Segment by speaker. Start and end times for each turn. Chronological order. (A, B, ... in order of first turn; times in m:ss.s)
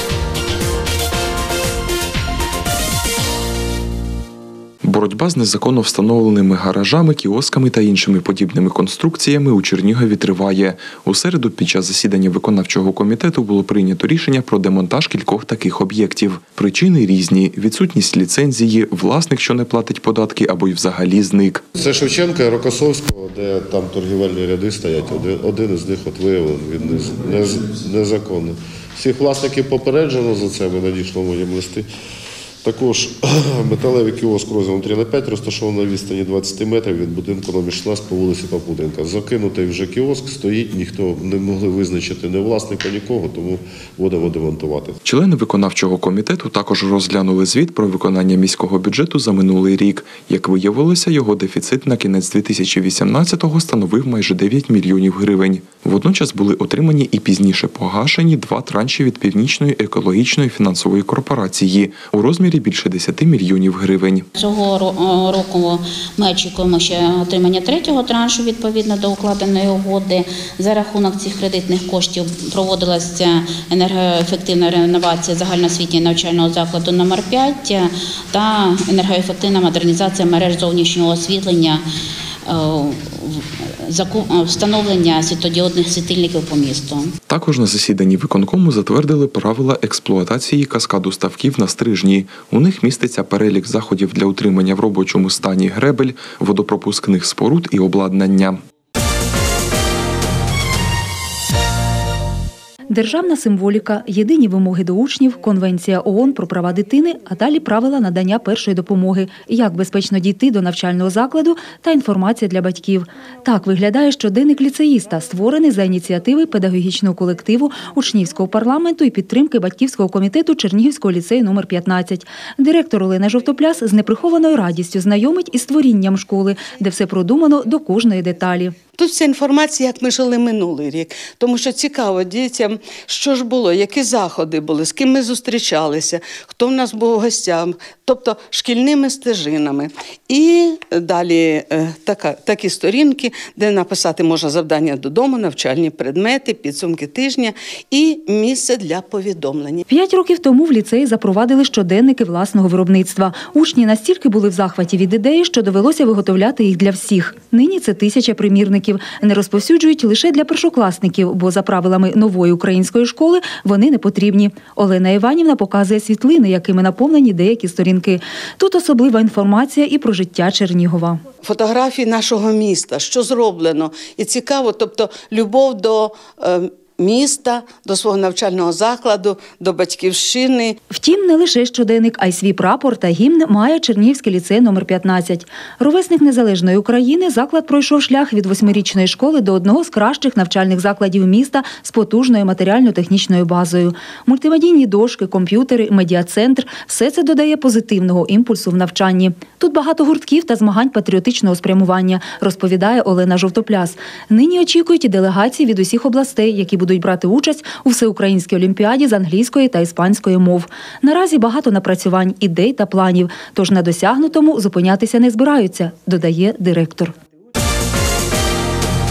0:04.8-0:21.6 A
0:21.8-0:31.9 B
0:32.6-0:45.0 B
0:45.0-1:04.3 A
1:04.4-1:21.8 C
1:22.5-1:27.1 C
1:27.3-1:38.6 A
1:42.9-2:08.7 D
2:09.0-2:29.8 E
2:29.9-2:51.2 D
2:51.4-3:00.8 E
3:00.9-3:37.1 D